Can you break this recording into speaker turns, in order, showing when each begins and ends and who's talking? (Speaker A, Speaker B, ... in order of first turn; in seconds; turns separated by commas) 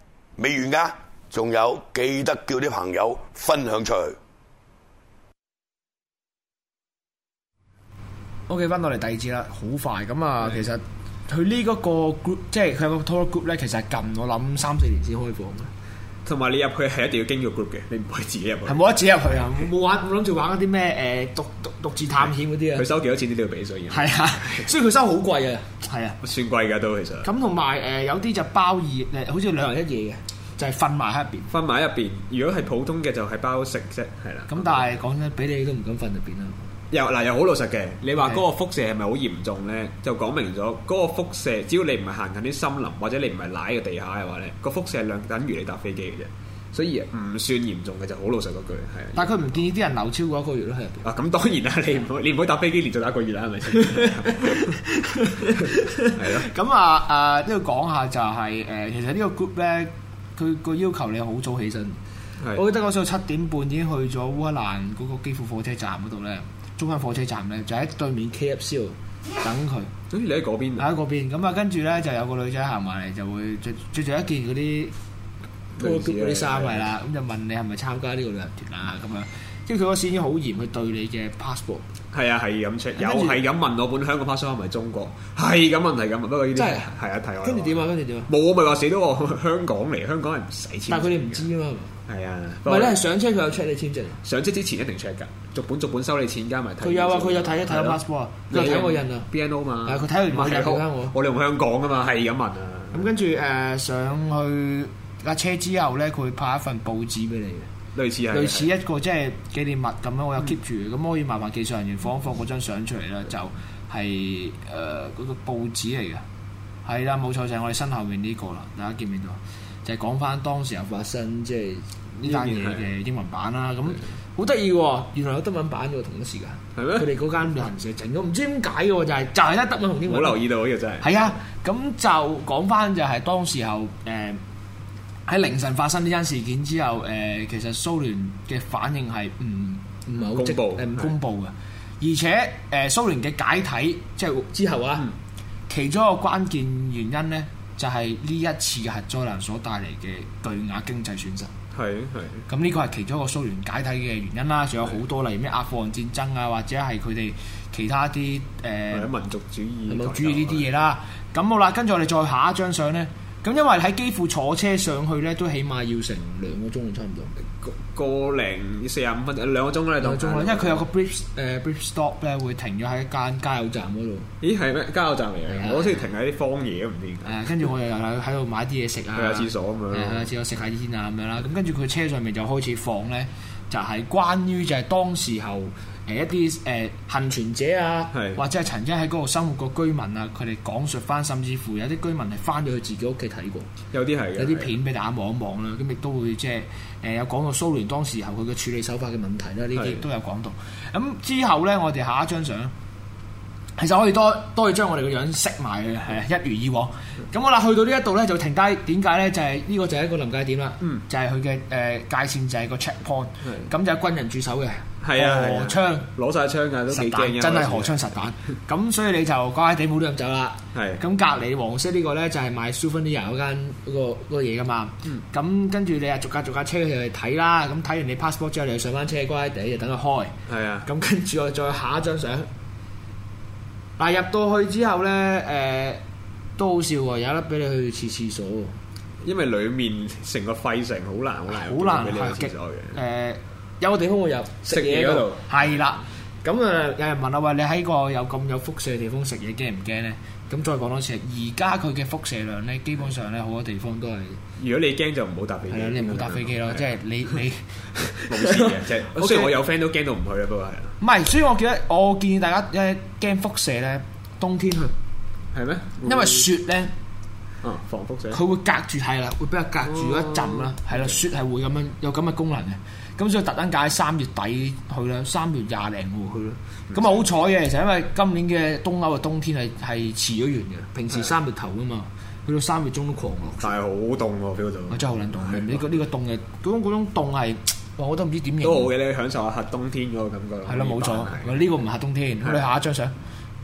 Speaker A: 0.4-4.2, Speaker B: 8.5-15.7, Speaker C: 16.2-19.7, Speaker B: 18.7-22.9, Speaker C: 22.2-24.7, Speaker B: 23.9-26.2, Speaker C: 26.2-27.3, Speaker B: 27.2-31.5, Speaker C: 31.5-35.0, Speaker B: 34.5-36.6, Speaker C: 36.9-49.7, Speaker B: 49.1-51.1, Speaker C: 51.0-54.8, Speaker B: 54.0-62.0, Speaker C: 55.6-56.5, Speaker B: 62.5-69.9, Speaker C: 70.1-70.9, Speaker B: 70.8-74.9, Speaker C: 75.8-77.0, Speaker B: 75.8-81.9, Speaker C: 82.1-91.5, Speaker B: 83.0-83.4, Speaker B: 86.5-88.3, Speaker B: 90.9-92.0, Speaker C: 92.1-93.0, Speaker B: 92.7-94.2, Speaker C: 94.2-103.2, Speaker B: 96.8-99.3, Speaker B: 99.8-101.2, Speaker B: 102.9-107.7, Speaker C: 107.9-108.7, Speaker B: 108.3-116.2, Speaker B: 116.8-130.4, Speaker C: 122.2-122.9, Speaker C: 126.8-127.1, Speaker C: 130.0-131.3, Speaker B: 131.0-134.4, Speaker B: 135.3-145.1, Speaker C: 140.2-141.2, Speaker B: 145.7-151.5, Speaker C: 151.7-152.5, Speaker B: 152.5-159.1, Speaker C: 158.9-160.7, Speaker B: 159.9-167.3, Speaker C: 167.6-170.8, Speaker B: 170.0-174.3, Speaker C: 174.4-177.4, Speaker B: 175.5-176.0, Speaker B: 177.2-193.7, Speaker C: 179.2-180.3, Speaker C: 188.1-188.4, Speaker C: 193.9-194.8, Speaker B: 194.4-202.7, Speaker C: 199.8-200.0, Speaker B: 203.8-216.1, Speaker C: 213.4-213.7, Speaker C: 215.0-218.2, Speaker B: 216.9-230.3, Speaker C: 220.7-221.0, Speaker C: 230.5-230.9, Speaker B: 230.8-232.5, Speaker B: 234.0-236.0, Speaker B: 236.6-238.8, Speaker C: 239.2-243.0, Speaker B: 241.5-254.4, Speaker C: 244.7-245.7, Speaker C: 254.6-256.9, Speaker B: 255.7-259.6, Speaker C: 258.2-261.0, Speaker B: 261.0-264.9, Speaker C: 265.5-266.5, Speaker B: 266.0-266.9, Speaker C: 267.6-268.4, Speaker B: 268.3-283.8, Speaker C: 269.9-271.2, Speaker C: 276.9-277.3, Speaker C: 283.6-285.9, Speaker B: 284.9-288.9, Speaker C: 288.6-291.7, Speaker B: 290.7-293.1